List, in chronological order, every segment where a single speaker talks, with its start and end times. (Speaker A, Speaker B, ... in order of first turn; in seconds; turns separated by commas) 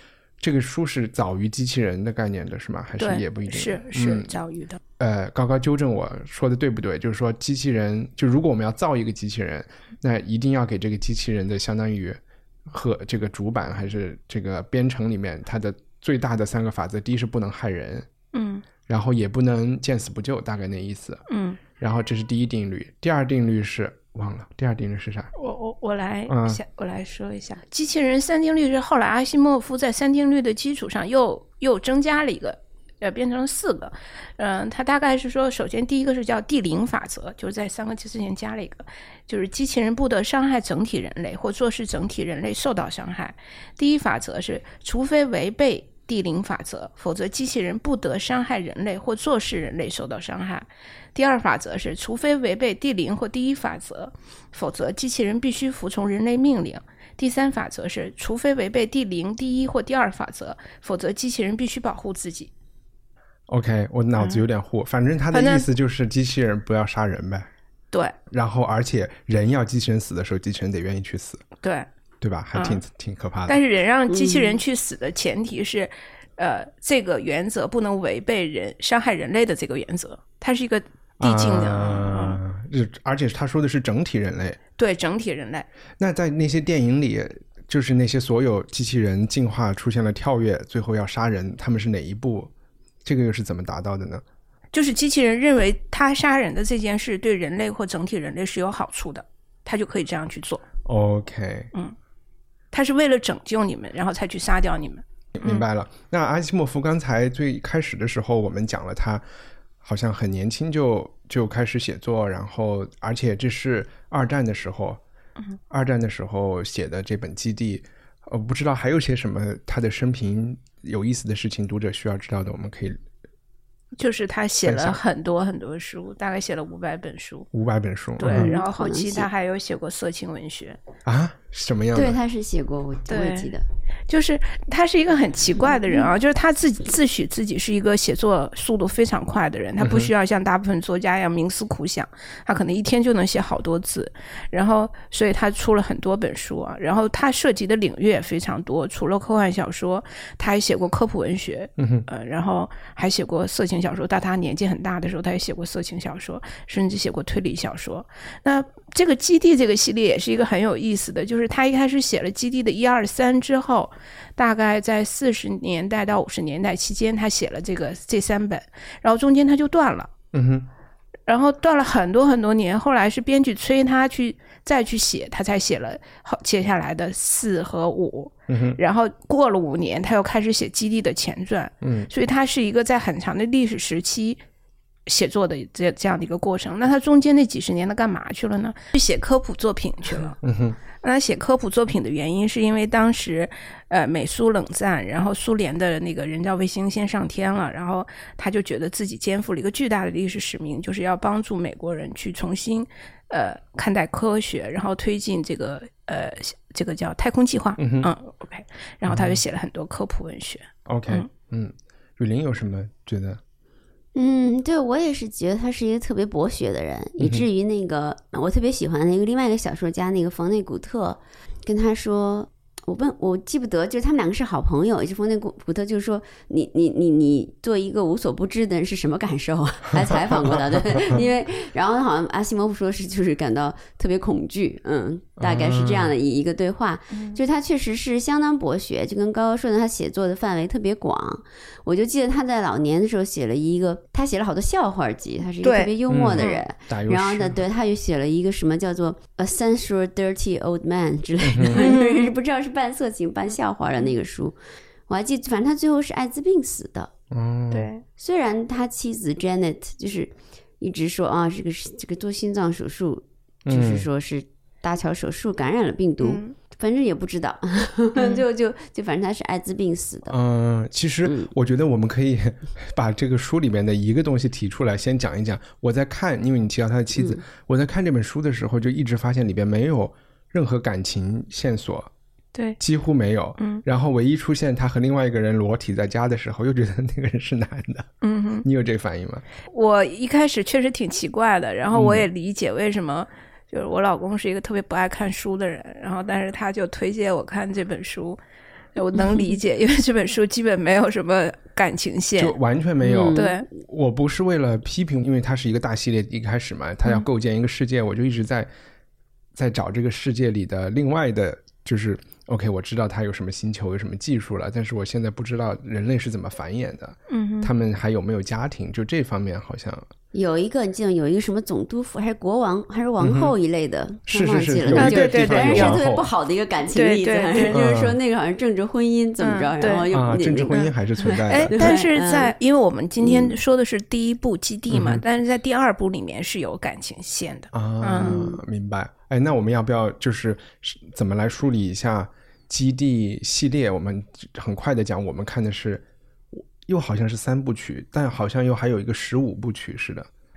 Speaker A: 0.4-4.3, Speaker B: 3.0-4.8, Speaker A: 5.0-18.1, Speaker B: 18.3-18.6, Speaker A: 18.9-21.2, Speaker B: 21.3-21.6, Speaker A: 21.8-25.3, Speaker B: 25.4-62.5, Speaker A: 26.3-26.6, Speaker A: 63.5-67.5, Speaker B: 65.3-65.7, Speaker A: 68.3-71.4, Speaker B: 71.6-71.9, Speaker A: 72.2-73.6, Speaker B: 72.5-72.8, Speaker B: 73.5-82.4, Speaker C: 74.1-74.6, Speaker A: 81.2-84.6, Speaker B: 84.8-85.7, Speaker A: 86.0-92.5, Speaker A: 93.0-94.2, Speaker B: 94.7-100.6, Speaker A: 100.9-101.7, Speaker B: 102.7-105.7, Speaker A: 105.4-109.2, Speaker A: 109.8-115.0, Speaker A: 115.7-123.0, Speaker B: 124.0-127.5, Speaker A: 124.7-125.0, Speaker A: 127.5-128.6, Speaker B: 128.2-130.8, Speaker C: 128.2-129.3, Speaker A: 131.1-132.2, Speaker C: 131.9-133.7, Speaker B: 133.1-133.5, Speaker B: 134.1-170.1, Speaker C: 135.7-136.1, Speaker A: 139.8-140.1, Speaker A: 151.8-152.1, Speaker A: 170.3-170.7, Speaker B: 171.3-184.4, Speaker A: 178.5-178.8, Speaker A: 181.8-182.1, Speaker B: 185.1-190.4, Speaker A: 190.4-190.8, Speaker B: 191.0-211.3, Speaker A: 207.8-208.1, Speaker A: 209.1-209.4, Speaker A: 210.9-213.4, Speaker C: 214.2-254.6, Speaker A: 217.2-217.5, Speaker A: 230.0-231.2, Speaker A: 235.4-236.1, Speaker B: 245.6-246.6, Speaker A: 246.1-247.6, Speaker A: 251.4-251.9, Speaker B: 251.7-252.3, Speaker C: 255.1-257.1, Speaker A: 257.3-257.9, Speaker B: 257.7-258.0, Speaker C: 258.2-270.4, Speaker A: 263.7-264.1, Speaker B: 266.2-266.6, Speaker B: 268.1-268.4, Speaker A: 270.3-282.1, Speaker C: 271.2-271.5, Speaker C: 277.1-277.4, Speaker A: 282.8-288.1, Speaker B: 288.2-288.7, Speaker A: 288.6-289.4, Speaker B: 289.7-298.4, Speaker A: 291.9-292.3, Speaker B: 299.0-302.6, Speaker A: 302.4-308.7, Speaker C: 303.0-303.5, Speaker B: 303.4-303.7, Speaker A: 309.6-320.1, Speaker B: 317.3-317.7, Speaker C: 320.3-332.5, Speaker A: 323.2-323.5, Speaker A: 324.3-326.3, Speaker B: 324.9-326.0, Speaker B: 326.9-327.8, Speaker A: 327.7-328.2, Speaker B: 329.4-330.1, Speaker A: 330.1-331.9, Speaker B: 331.5-338.4, Speaker C: 333.2-333.6, Speaker A: 334.9-335.2, Speaker A: 337.7-350.3, Speaker C: 338.2-338.6